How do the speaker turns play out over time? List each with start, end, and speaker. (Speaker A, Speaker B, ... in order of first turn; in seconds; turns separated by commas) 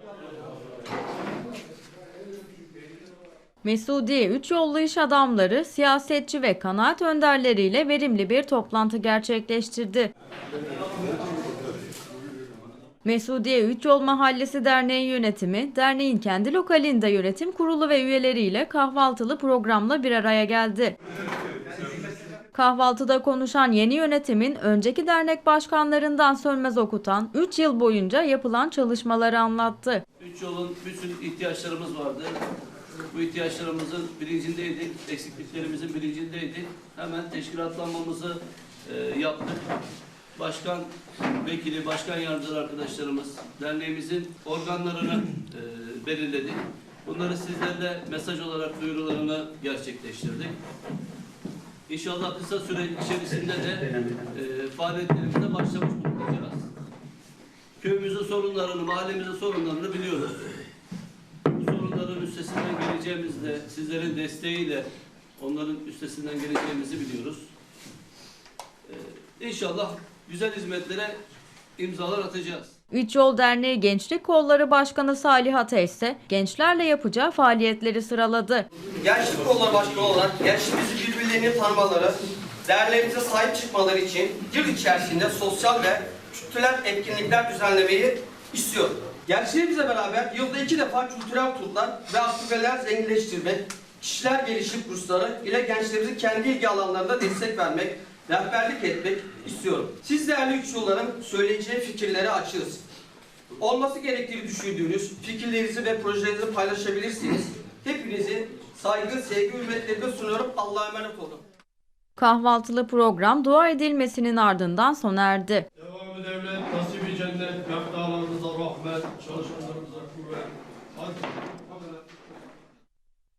Speaker A: 3.6-10.1, Speaker A: 13.0-20.9, Speaker A: 22.5-30.0, Speaker B: 30.2-32.4, Speaker B: 33.1-39.7, Speaker B: 40.3-40.9, Speaker B: 41.4-50.5, Speaker B: 51.9-56.7, Speaker B: 57.8-60.7, Speaker B: 61.6-64.9, Speaker B: 65.4-67.5, Speaker B: 68.8-71.2, Speaker B: 71.8-72.7, Speaker A: 72.9-78.7, Speaker C: 79.0-102.8, Speaker C: 103.6-111.4, Speaker A: 112.2-115.7, Speaker D: 115.8-120.5, Speaker B: 115.9-117.8, Speaker B: 118.9-120.4